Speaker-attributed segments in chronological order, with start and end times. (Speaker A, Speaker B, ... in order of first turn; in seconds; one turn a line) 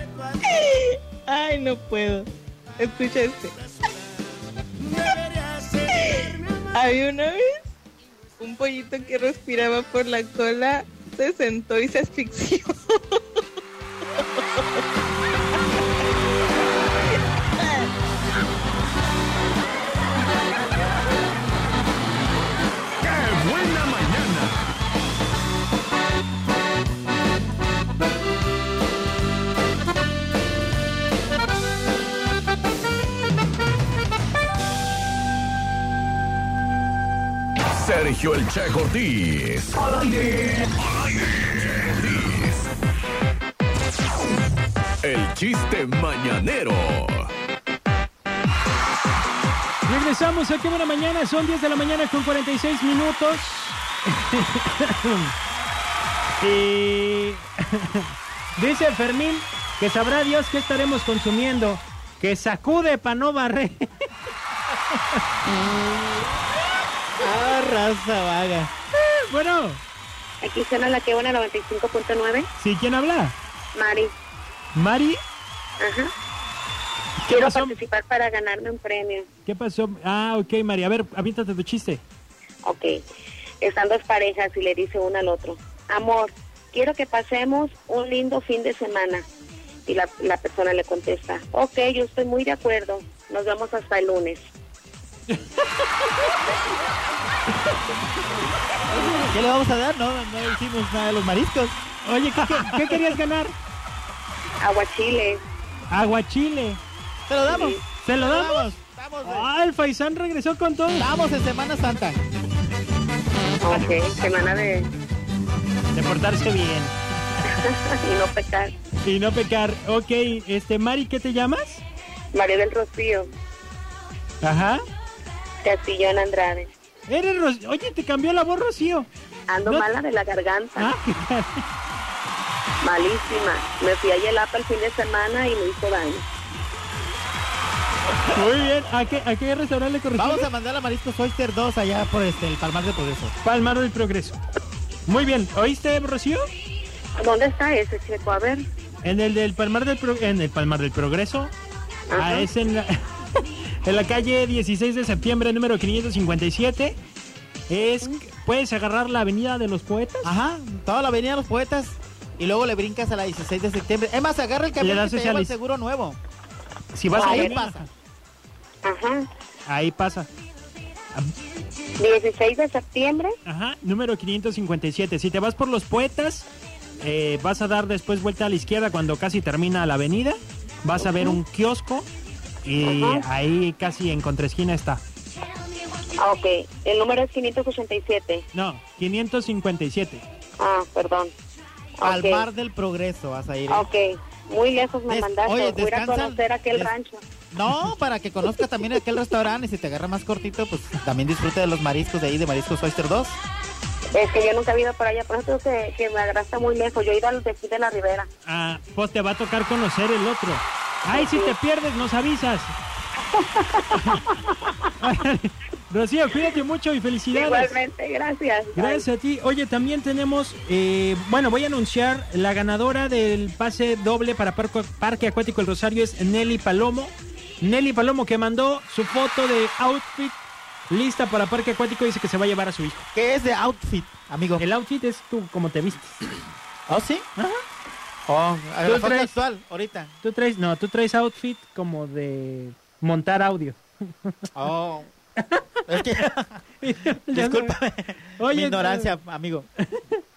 Speaker A: 0.4-2.3
Speaker A: 2.8-3.6
Speaker A: 4.9-7.6
Speaker A: 8.4-12.8
Speaker B: 23.0-24.7
Speaker B: 37.7-40.7
Speaker B: 41.3-42.5
Speaker B: 45.0-47.3
Speaker C: 49.9-55.3
Speaker C: 56.4-63.9
Speaker D: 67.2-68.7
Speaker C: 69.0-69.8
Speaker E: 70.4-72.5
Speaker C: 72.6-73.3
Speaker E: 73.7-74.1
Speaker C: 74.7-75.2
Speaker E: 75.8-76.1
Speaker C: 77.2-77.8
Speaker E: 77.3-79.2
Speaker C: 79.5-82.0
Speaker E: 82.6-82.9
Speaker E: 83.6-89.2
Speaker E: 89.9-94.4
Speaker C: 95.3-96.1
Speaker D: 99.0-101.8
Speaker C: 102.0-103.5
Speaker D: 102.4-103.1
Speaker E: 104.6-105.4
Speaker C: 105.9-106.8
Speaker D: 107.3-109.5
Speaker E: 107.5-107.8
Speaker C: 108.0-108.7
Speaker C: 109.2-111.1
Speaker D: 111.0-112.2
Speaker E: 113.6-114.9
Speaker C: 115.9-116.9
Speaker E: 117.5-118.7
Speaker C: 119.0-121.8
Speaker E: 122.3-123.3
Speaker C: 124.4-124.8
Speaker E: 125.6-126.7
Speaker C: 127.1-129.1
Speaker E: 129.5-130.9
Speaker C: 130.8-131.6
Speaker E: 132.8-136.2
Speaker C: 138.2-140.5
Speaker D: 140.2-143.3
Speaker C: 143.4-144.4
Speaker C: 145.1-146.4
Speaker E: 147.2-148.6
Speaker C: 149.0-151.5
Speaker E: 152.1-152.5
Speaker C: 152.2-157.0
Speaker C: 157.7-160.3
Speaker D: 160.2-166.2
Speaker C: 164.8-165.5
Speaker C: 166.9-167.9
Speaker D: 167.1-167.9
Speaker E: 167.1-167.5
Speaker E: 168.8-169.2
Speaker C: 169.7-170.3
Speaker E: 172.0-173.3
Speaker C: 173.4-176.5
Speaker C: 177.0-182.1
Speaker E: 181.0-181.4
Speaker C: 182.6-185.0
Speaker E: 182.8-183.2
Speaker E: 186.2-188.4
Speaker C: 188.5-190.2
Speaker E: 190.6-191.3
Speaker E: 192.0-192.5
Speaker D: 192.0-193.9
Speaker E: 193.7-197.2
Speaker D: 195.1-196.9
Speaker D: 197.5-203.4
Speaker E: 204.2-208.3
Speaker C: 208.4-212.7
Speaker E: 211.1-211.5
Speaker E: 213.3-214.7
Speaker C: 214.0-214.2
Speaker C: 215.0-217.7
Speaker E: 217.3-219.0
Speaker C: 218.8-233.1
Speaker D: 233.1-234.6
Speaker C: 234.6-236.2
Speaker D: 236.9-237.3
Speaker D: 238.3-240.1
Speaker C: 238.8-239.3
Speaker C: 240.2-244.5
Speaker D: 244.5-245.1
Speaker C: 245.4-246.1
Speaker D: 245.9-246.6
Speaker C: 246.8-247.8
Speaker D: 247.3-249.7
Speaker C: 248.3-249.2